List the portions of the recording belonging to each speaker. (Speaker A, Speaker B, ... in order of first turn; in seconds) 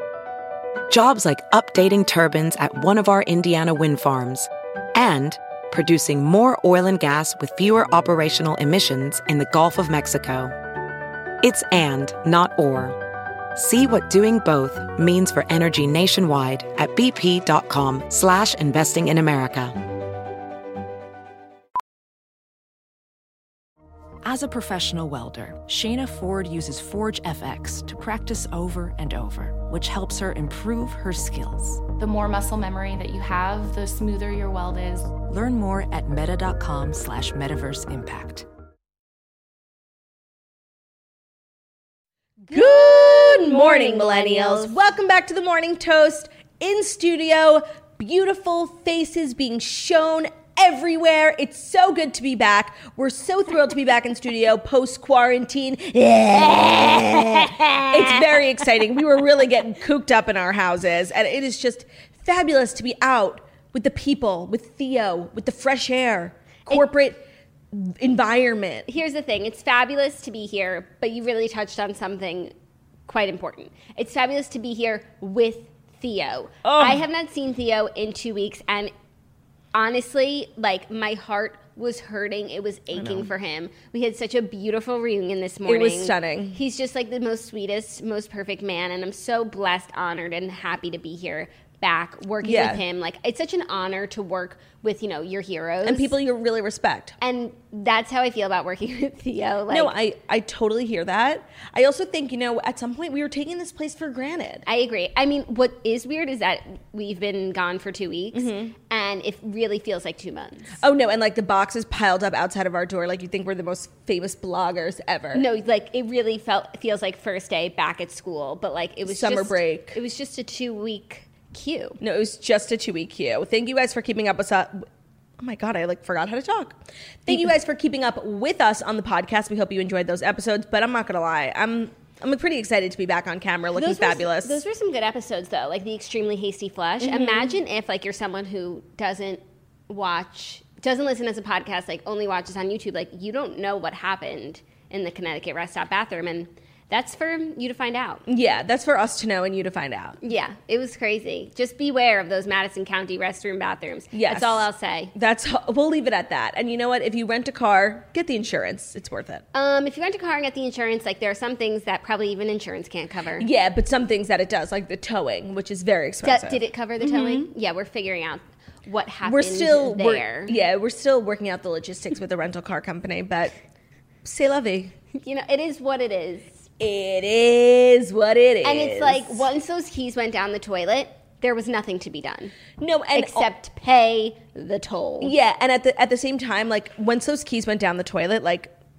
Speaker A: 0.9-10.5, 11.4-13.0, 13.5-19.7
Speaker B: 24.2-31.9, 35.2-38.5
Speaker C: 32.0-35.1
Speaker D: 42.5-44.7, 56.8-58.3, 68.9-72.5, 73.1-78.9, 79.7-96.2, 97.2-99.9, 104.7-110.8, 115.3-122.0, 133.7-148.2, 150.2-155.1, 159.5-163.5, 166.2-170.6, 175.1-176.7, 178.6-182.6, 183.1-185.3
Speaker E: 42.5-68.9, 76.6-77.0, 82.9-83.3, 85.7-86.6, 92.4-92.8, 95.8-97.2, 99.7-104.6, 108.3-108.7, 110.8-115.4, 119.0-120.0, 122.0-124.8, 125.4-134.6, 137.0-137.6, 148.3-150.2, 154.1-159.4, 163.4-167.5, 169.2-173.6, 174.2-174.9, 176.8-179.5, 182.8-183.5, 185.2-188.7